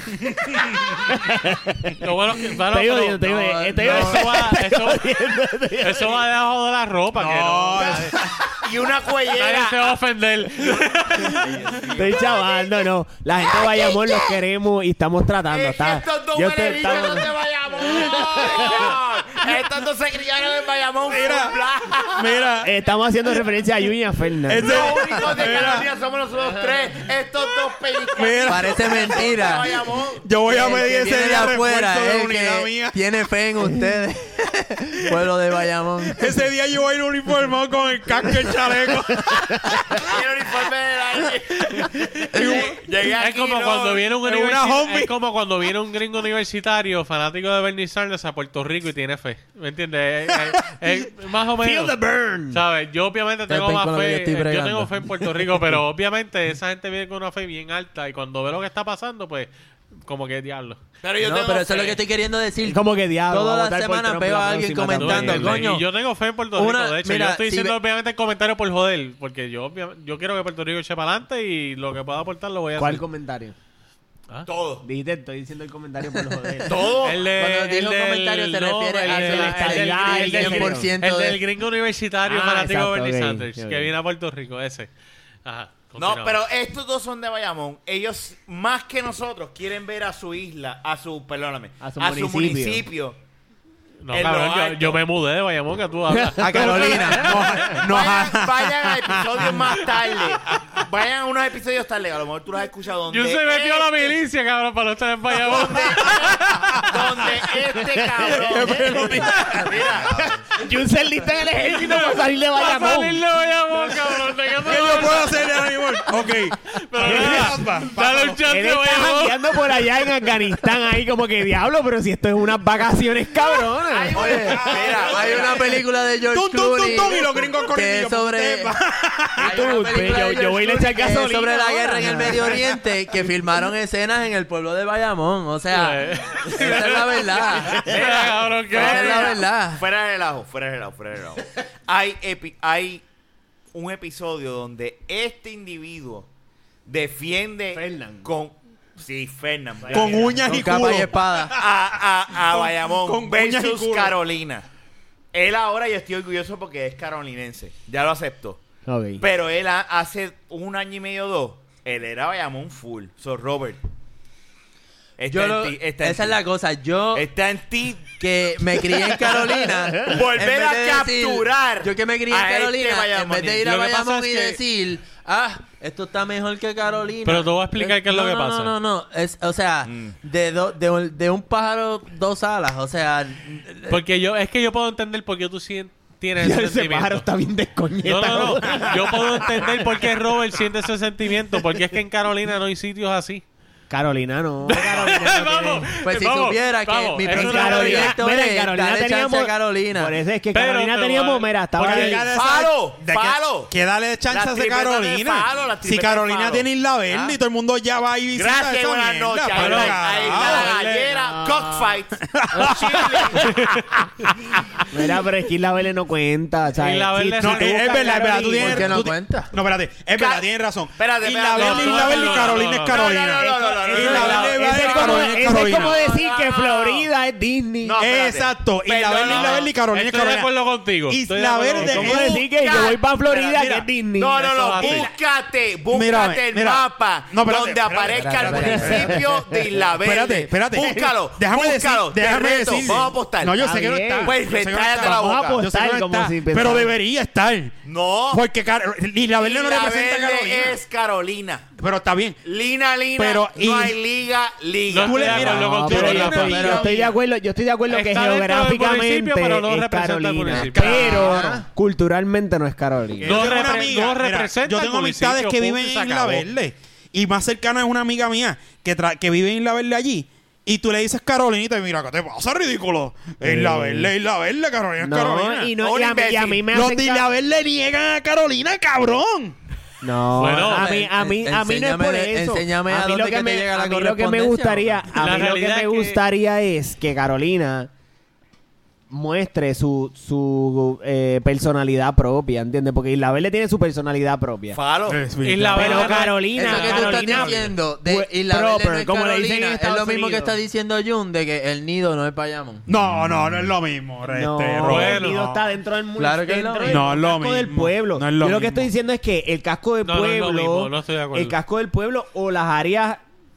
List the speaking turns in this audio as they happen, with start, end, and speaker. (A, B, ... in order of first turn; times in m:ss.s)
0:00.3-0:00.9 A
0:00.6-0:02.0 B
0:02.0-0:05.1 C
0:02.6-0:06.2 B
0:03.4-0:04.4 D
0:05.8-0:08.2 C
0:07.1-0:08.4 A
0:08.2-0:10.0 E
0:09.3-0:11.6 C
0:10.6-0:12.7 E
0:11.9-0:19.0 B
0:13.6-0:14.2 E
0:15.5-0:22.4 E
0:21.1-0:21.6 A
0:22.1-0:22.7 A
0:22.6-0:24.9 B
0:24.5-0:25.9 A
0:24.6-0:30.4 E
0:28.1-0:29.1 A
0:28.5-0:29.8 D
0:30.2-0:33.0 A
0:30.4-0:36.3 D
0:36.1-0:40.2 A
0:39.7-0:40.0 B
0:40.0-0:44.1 E
0:41.8-0:42.8 A
0:43.2-0:52.0 C
0:44.2-0:45.1 A
0:51.6-0:52.6 B
0:52.5-1:00.8 C
0:53.5-0:55.3 D
1:01.0-1:02.0 E
1:01.2-1:05.9 D
1:02.6-1:05.7 B
1:05.0-1:13.0 C
1:06.6-1:07.8 D
1:12.8-1:13.6 B
1:14.5-1:14.9 E
1:14.8-1:16.9 B
1:16.7-1:17.3 E
1:17.0-1:24.9 C
1:17.3-1:21.4 D
1:19.1-1:20.9 B
1:22.2-1:23.9 B
1:25.4-1:26.4 C
1:26.0-1:33.2 E
1:31.8-1:32.8 B
1:34.0-1:37.7 C
1:34.1-1:35.0 E
1:36.1-1:37.7 B
1:36.4-1:37.5 D
1:37.1-1:39.8 A
1:37.6-1:44.1 E
1:43.1-1:46.8 C
1:45.4-1:50.4 E
1:46.6-1:46.9 A
1:47.7-1:49.3 B
1:48.2-1:50.0 A
1:50.5-1:53.2 B
1:51.6-1:55.6 C
1:54.6-1:58.4 A
1:56.7-1:59.8 C
1:57.0-1:57.6 B
1:58.4-2:05.4 B
2:03.9-2:05.8 E
2:04.1-2:08.8 D
2:06.3-2:09.6 A
2:09.4-2:18.0 D
2:09.4-2:12.6 B
2:15.7-2:19.4 C
2:17.7-2:18.2 B
2:17.9-2:23.0 E
2:18.7-2:19.8 D
2:23.7-2:26.3 E
2:26.9-2:31.0 E
2:27.7-2:28.3 B
2:29.9-2:30.4 B
2:29.9-2:34.2 A
2:30.4-2:31.6 D
2:31.5-2:34.7 E
2:35.3-2:38.6 E
2:38.9-2:39.2 B
2:39.2-2:43.8 E
2:45.2-2:46.4 E
2:45.3-2:47.3 D
2:47.1-2:48.2 E
2:48.2-3:04.0 D
2:50.0-2:53.8 E
2:53.6-2:54.6 C
2:57.2-2:58.8 C
2:59.9-3:00.1 E
3:03.9-3:07.2 C
3:06.4-3:09.8 B
3:08.0-3:13.4 C
3:13.9-3:15.9 B
3:14.7-3:18.2 C
3:16.0-3:20.2 D
3:17.3-3:22.3 B
3:20.5-3:22.3 C
3:21.8-3:31.0 A
3:22.3-3:23.7 E
3:24.3-3:27.4 E
3:28.3-3:33.9 E
3:29.5-3:30.7 C
3:30.9-3:31.8 B
3:32.2-3:33.8 A
3:34.4-3:34.8 A
3:34.9-3:39.1 B
3:36.8-3:38.4 C
3:37.4-3:46.0 A
3:38.5-3:39.5 D
3:40.1-3:47.1 E
3:41.6-3:43.1 C
3:43.4-3:48.0 B
3:47.8-3:49.7 E
3:48.0-3:50.5 A
3:49.2-3:52.4 C
3:51.1-3:53.9 A
3:51.8-3:54.5 B
3:54.2-4:05.6 E
3:54.4-3:55.1 C
3:54.8-3:55.1 A
3:55.9-3:59.3 A
3:58.1-3:59.8 B
3:58.4-3:58.9 D
4:00.0-4:07.8 A
4:03.6-4:04.4 B
4:04.9-4:06.9 B
4:07.8-4:08.4 E
4:08.3-4:10.8 A
4:09.4-4:11.7 E
4:11.8-4:12.4 A
4:12.4-4:17.1 E
4:13.2-4:14.0 A
4:14.9-4:16.9 C
4:15.0-4:16.8 A
4:15.7-4:23.3 B
4:16.4-4:16.9 D
4:17.9-4:21.5 C
4:20.6-4:21.6 A
4:21.1-4:21.6 D
4:23.2-4:23.8 E
4:23.2-4:26.5 C
4:23.2-4:35.8 A
4:33.4-4:34.1 B
4:35.0-4:37.3 B
4:35.8-4:36.7 E
4:36.7-4:39.6 A
4:40.0-4:47.9 B
4:40.4-4:40.9 C
4:40.6-4:45.1 D
4:45.1-4:46.2 C
4:49.1-4:54.8 B
4:54.7-4:55.2 E
4:55.1-4:57.7 A
4:55.4-4:56.5 C
4:55.8-5:00.6 B
4:56.1-5:02.9 D
5:02.9-5:05.6 A
5:03.0-5:03.7 E
5:04.3-5:13.2 B
5:04.8-5:05.4 C
5:06.2-5:07.1 D
5:06.9-5:08.9 A
5:10.0-5:11.6 C